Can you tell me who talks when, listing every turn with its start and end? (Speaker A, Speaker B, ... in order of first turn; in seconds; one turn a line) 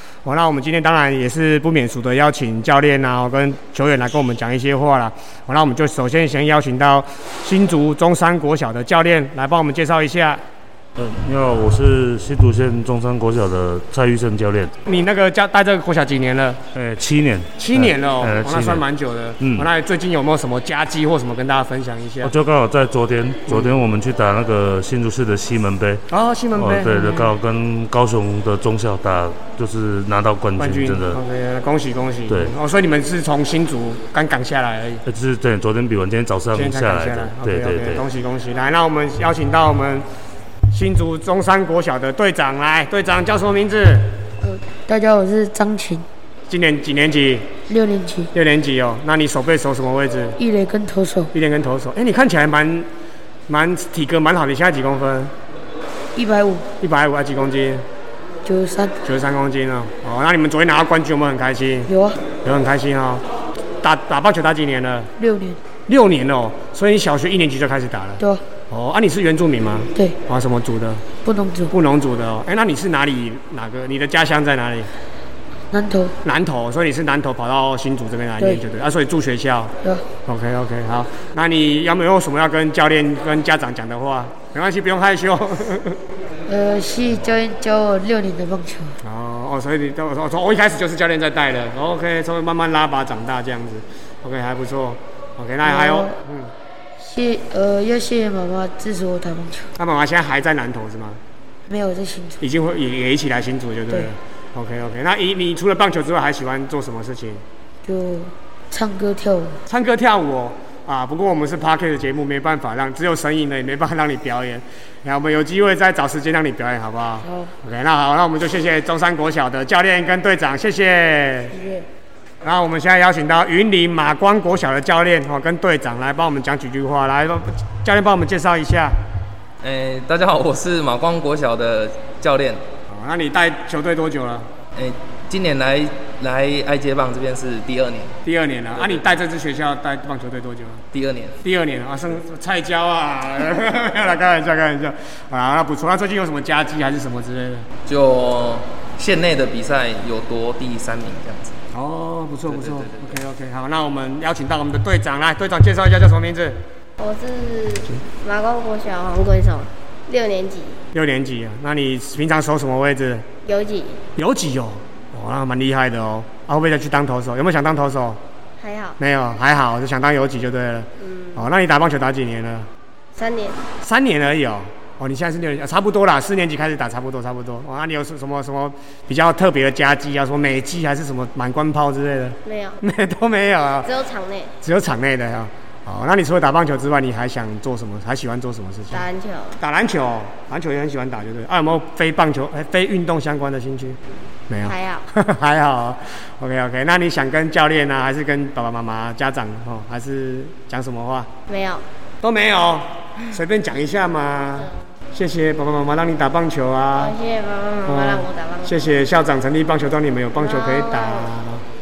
Speaker A: 0.2-10.4
Speaker B: 11.0-14.7
Speaker A: 14.8-16.6
Speaker B: 16.7-18.8
Speaker A: 17.6-22.4
Speaker B: 19.4-19.7
Speaker B: 22.2-26.0
Speaker A: 23.4-23.7
Speaker A: 26.1-27.3
Speaker B: 26.6-31.2
Speaker A: 30.6-35.0
Speaker B: 35.0-38.0
Speaker A: 36.5-40.0
Speaker A: 40.7-44.2
Speaker C: 44.4-46.0
Speaker A: 46.5-47.6
Speaker C: 47.7-48.3
Speaker A: 48.3-50.4
Speaker C: 50.4-51.3
Speaker A: 51.3-52.9
Speaker A: 53.5-55.3
Speaker C: 56.2-56.6
Speaker A: 56.8-57.8
Speaker C: 58.4-59.0
Speaker A: 59.0-63.2
Speaker C: 61.9-62.2
Speaker A: 63.8-65.1
Speaker C: 65.2-65.6
Speaker A: 65.9-71.0
Speaker C: 68.2-68.4
Speaker C: 71.2-71.7
Speaker A: 71.7-74.9
Speaker C: 75.7-76.2
Speaker A: 76.2-86.0
Speaker C: 86.5-89.0
Speaker A: 89.0-96.5
Speaker C: 95.6-96.1
Speaker C: 97.0-99.7
Speaker A: 99.8-101.2
Speaker C: 101.7-102.4
Speaker A: 102.4-107.4
Speaker C: 107.8-109.6
Speaker A: 109.7-121.6
Speaker C: 117.2-117.5
Speaker C: 121.5-121.9
Speaker A: 122.4-129.0
Speaker D: 129.6-132.6
Speaker A: 132.9-134.5
Speaker D: 134.8-138.2
Speaker A: 138.2-140.8
Speaker D: 138.7-139.0
Speaker D: 140.9-141.4
Speaker A: 141.4-147.7
Speaker D: 147.8-151.6
Speaker A: 151.7-156.6
Speaker D: 152.5-153.2
Speaker E: 157.0-160.8
Speaker A: 160.9-163.2
Speaker E: 163.4-164.0
Speaker A: 164.2-168.2
Speaker E: 168.6-169.0
Speaker A: 169.0-172.7
Speaker E: 171.0-171.5
Speaker E: 173.2-173.6
Speaker A: 173.8-183.9
Speaker E: 182.4-182.8
Speaker E: 183.8-184.5
Speaker A: 184.6-189.1
Speaker E: 188.9-189.6
Speaker A: 189.6-201.3
Speaker E: 194.7-195.1
Speaker E: 201.5-201.8
Speaker A: 202.2-207.2
Speaker E: 206.9-208.9
Speaker A: 207.8-211.6
Speaker E: 210.4-211.3